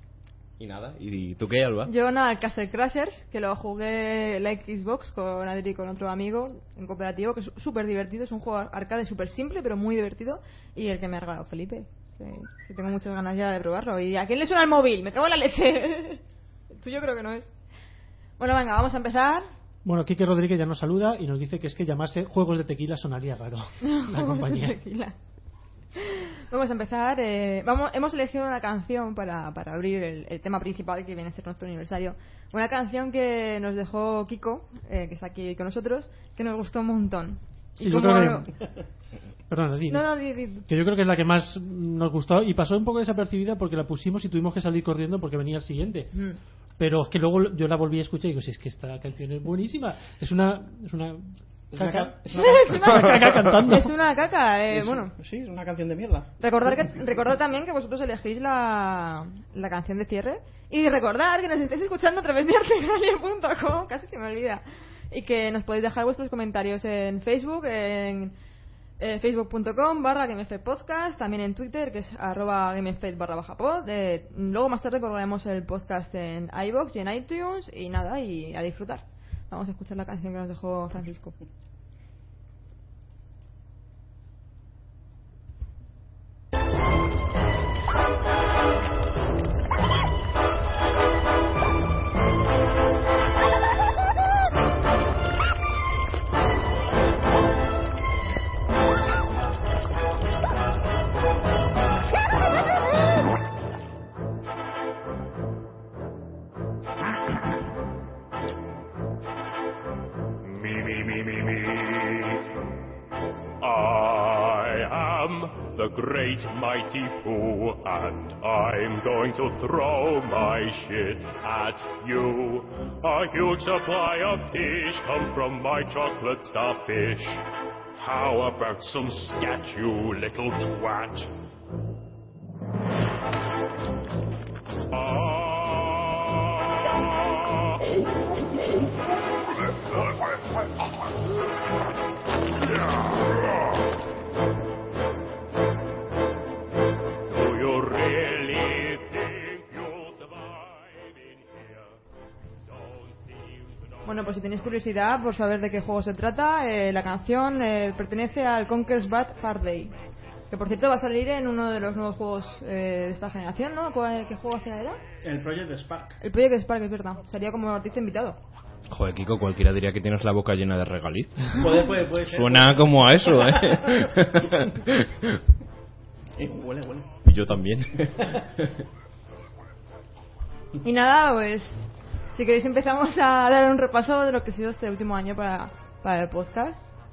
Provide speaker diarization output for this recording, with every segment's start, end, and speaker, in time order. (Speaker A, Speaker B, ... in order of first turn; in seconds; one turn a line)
Speaker A: 0.6-1.9
Speaker B: 1.9-17.5
Speaker B: 18.4-19.5
Speaker C: 19.8-24.8
Speaker B: 23.8-25.1
Speaker B: 25.9-38.5
Speaker C: 37.8-38.5
Speaker C: 39.5-40.0
Speaker B: 39.9-40.6
Speaker C: 40.6-46.1
Speaker B: 46.1-46.4
Speaker C: 46.8-53.9
Speaker D: 51.7-53.0
Speaker B: 52.3-55.1
Speaker D: 54.7-56.9
Speaker B: 56.4-68.3
Speaker B: 69.0-81.3
Speaker E: 110.4-112.4
Speaker E: 113.6-127.4
Speaker E: 128.0-131.3
Speaker E: 134.9-137.6
Speaker E: 147.3-151.9
Speaker E: 152.9-153.3
Speaker B: 154.1-159.9
Speaker B: 160.5-165.0
Speaker D: 165.2-166.2
Speaker B: 166.2-168.4
Speaker A: 168.9-175.4
Speaker D: 171.6-173.0
Speaker D: 176.4-177.1
Speaker A: 177.2-178.8
Speaker B: 180.8-181.8
Speaker B: 182.3-186.8